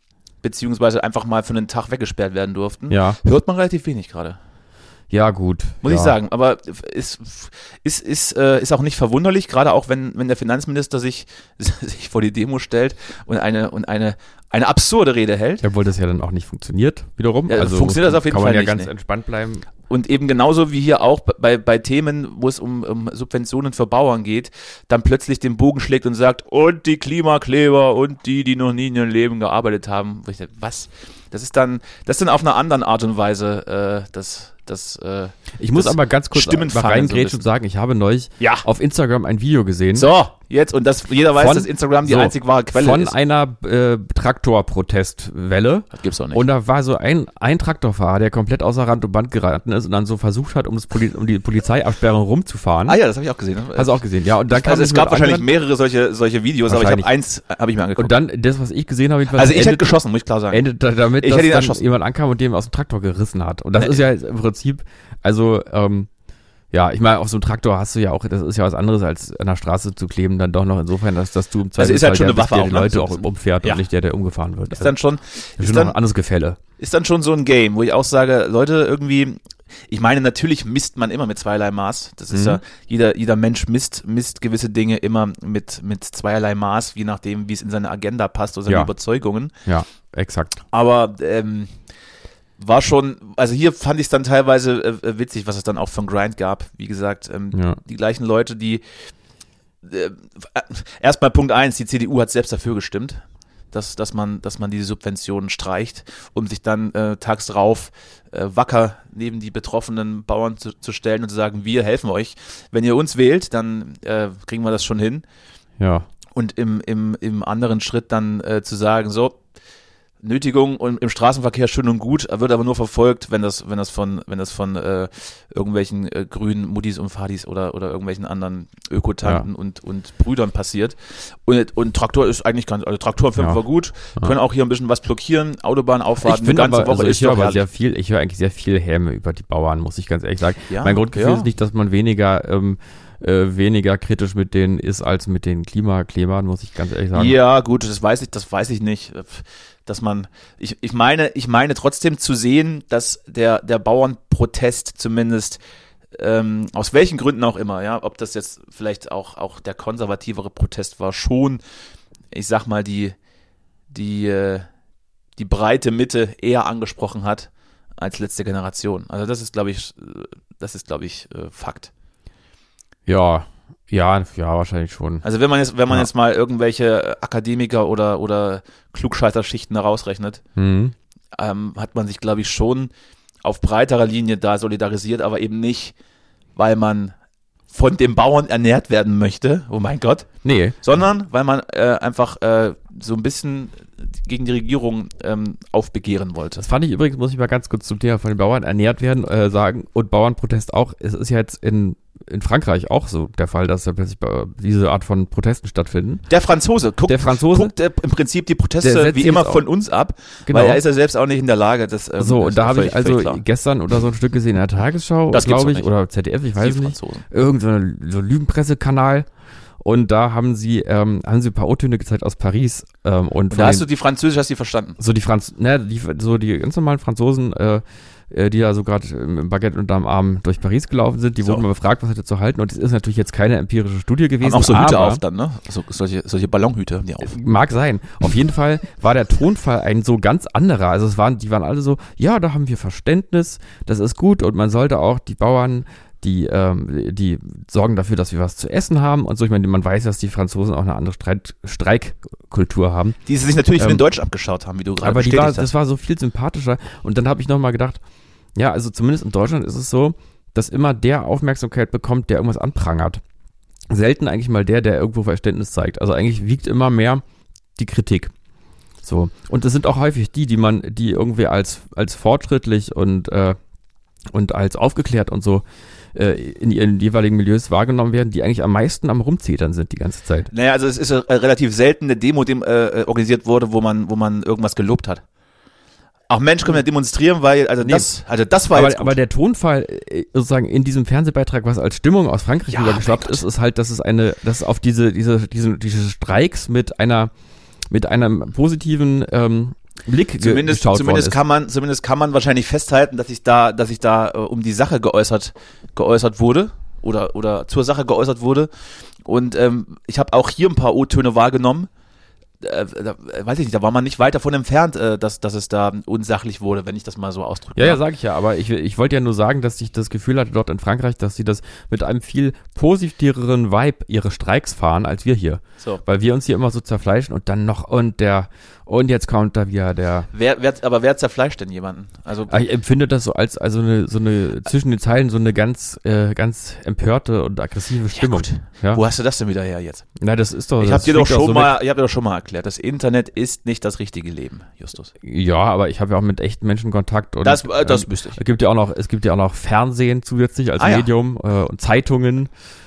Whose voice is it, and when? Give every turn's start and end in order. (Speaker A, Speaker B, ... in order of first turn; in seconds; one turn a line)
Speaker A: 0.4-4.4
Speaker B: 2.9-3.2
Speaker B: 5.1-6.2
Speaker A: 5.8-15.6
Speaker B: 15.6-19.7
Speaker A: 17.5-18.9
Speaker A: 19.9-37.4
Speaker B: 35.6-40.1
Speaker A: 38.4-38.6
Speaker A: 39.9-43.1
Speaker B: 41.3-53.0
Speaker A: 45.9-46.4
Speaker A: 52.9-53.9
Speaker B: 53.7-55.5
Speaker A: 54.5-58.1
Speaker B: 56.7-57.1
Speaker B: 58.0-60.0
Speaker A: 59.3-60.6
Speaker B: 60.5-66.1
Speaker A: 61.2-61.8
Speaker B: 66.7-74.9
Speaker A: 71.8-73.8
Speaker A: 74.7-76.0
Speaker B: 75.6-76.6
Speaker A: 76.8-79.4
Speaker A: 79.9-89.5
Speaker B: 82.3-82.6
Speaker B: 89.7-90.5
Speaker A: 90.7-91.7
Speaker A: 92.6-98.8
Speaker A: 99.8-115.2
Speaker B: 115.8-116.1
Speaker A: 116.3-119.4
Speaker A: 120.2-137.6
Speaker B: 136.2-147.3
Speaker A: 140.7-141.4
Speaker A: 147.1-155.6
Speaker A: 156.1-161.6
Speaker A: 162.3-163.1
Speaker A: 163.9-164.7
Speaker A: 165.4-171.9
Speaker B: 173.1-175.2
Speaker A: 175.2-180.4
Speaker B: 180.6-180.9
Speaker A: 181.3-182.9
Speaker A: 183.4-185.9
Speaker A: 186.6-187.1
Speaker A: 187.7-196.6
Speaker B: 190.4-190.8
Speaker B: 196.6-206.2
Speaker A: 206.3-213.4
Speaker B: 207.1-207.7
Speaker B: 208.8-209.7
Speaker B: 210.5-210.8
Speaker B: 212.2-219.3
Speaker A: 215.3-215.9
Speaker A: 216.6-217.2
Speaker B: 219.8-223.8
Speaker A: 223.5-225.0
Speaker B: 225.0-235.2
Speaker A: 234.4-237.3
Speaker B: 237.2-253.2
Speaker A: 253.2-255.7
Speaker B: 255.0-258.0
Speaker B: 258.5-263.2
Speaker B: 263.9-267.2
Speaker B: 267.8-268.3
Speaker B: 269.0-273.6
Speaker B: 274.3-275.6
Speaker B: 276.1-280.5
Speaker A: 280.5-285.2
Speaker A: 286.3-289.2
Speaker B: 287.8-288.1
Speaker B: 288.7-297.3
Speaker A: 292.7-293.4
Speaker B: 297.9-301.4
Speaker A: 300.4-308.7
Speaker A: 309.2-311.9
Speaker A: 312.6-318.0
Speaker B: 317.8-330.3
Speaker A: 330.3-332.6
Speaker B: 332.5-339.0
Speaker A: 338.1-340.1
Speaker B: 340.2-341.8
Speaker A: 340.8-345.1
Speaker B: 345.2-352.5
Speaker A: 347.4-348.4
Speaker A: 350.8-351.1